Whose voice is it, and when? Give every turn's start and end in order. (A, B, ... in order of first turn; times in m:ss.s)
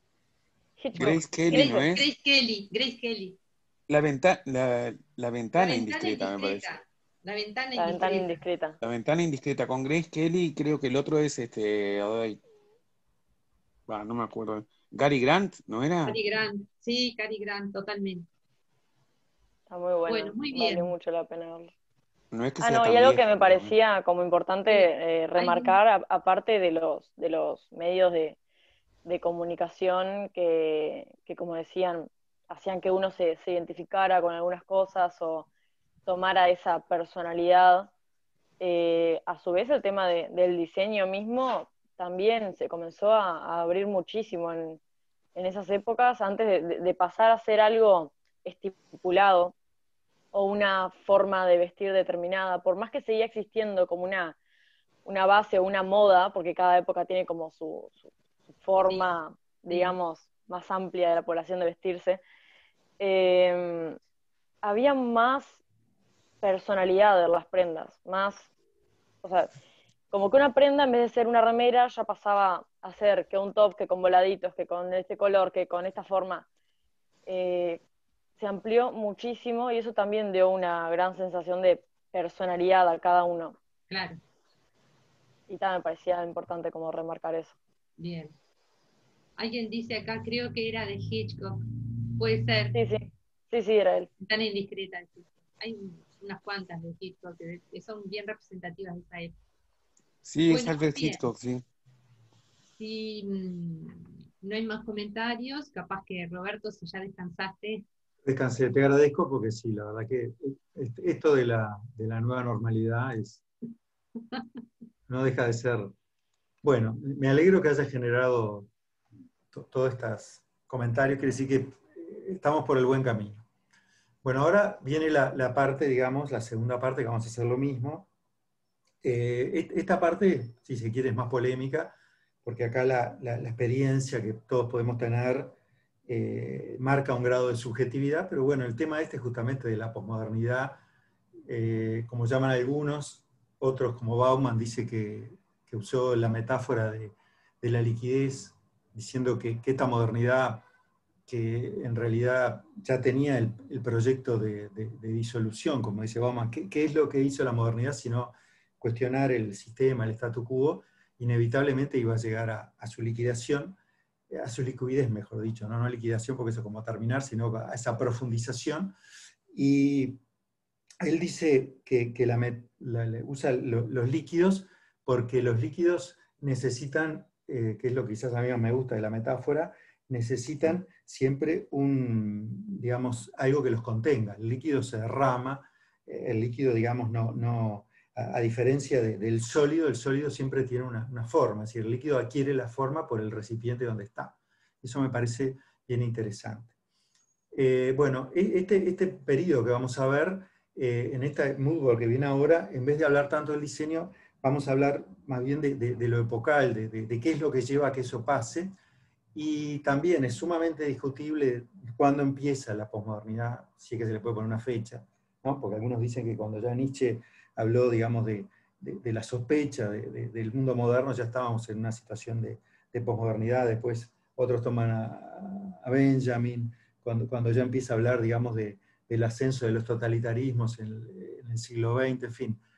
0:00.8-0:01.8 A
0:01.0-0:03.4 B
0:01.0-0:02.1 C
0:03.9-0:06.8 C
0:05.6-0:08.4 B
0:07.8-0:08.8 A
0:08.8-0:12.4 C
0:13.9-0:16.2 C
0:16.0-0:18.3 B
0:19.7-0:21.7 A
0:20.1-0:20.9 B
0:22.3-0:23.7 C
0:22.6-0:28.4 A
0:24.7-0:25.8 B
0:29.0-0:35.5 A
0:36.1-0:37.9 A
0:38.6-0:44.8 A
0:45.4-0:49.5 A
0:50.3-0:54.4 A
0:55.0-1:02.2 A
0:58.9-0:59.2 B
0:59.7-1:00.0 B
1:03.0-1:04.0 A
1:04.6-1:05.6 A
1:06.4-1:08.5 A
1:09.2-1:09.5 A
1:10.1-1:16.5 A
1:17.3-1:17.8 A
1:18.4-1:23.6 A
1:23.9-1:24.2 B
1:25.5-1:27.6 A
1:28.0-1:28.3 B
1:29.4-1:31.6 B
1:32.2-1:32.8 B
1:32.7-1:34.1 A
1:34.2-1:39.4 B
1:40.2-1:41.6 C
1:40.5-1:41.2 B
1:42.8-1:47.9 B
1:48.2-1:53.4 D
1:55.1-1:55.9 D
1:56.6-1:58.7 D
1:59.5-2:03.4 D
2:04.2-2:08.1 D
2:09.0-2:15.6 D
2:16.1-2:20.8 D
2:21.5-2:30.7 D
2:31.3-2:43.8 D
2:44.3-2:49.0 D
2:49.5-2:50.2 D
2:51.0-3:16.7 D
3:17.5-3:28.7 D
3:29.3-3:52.6 D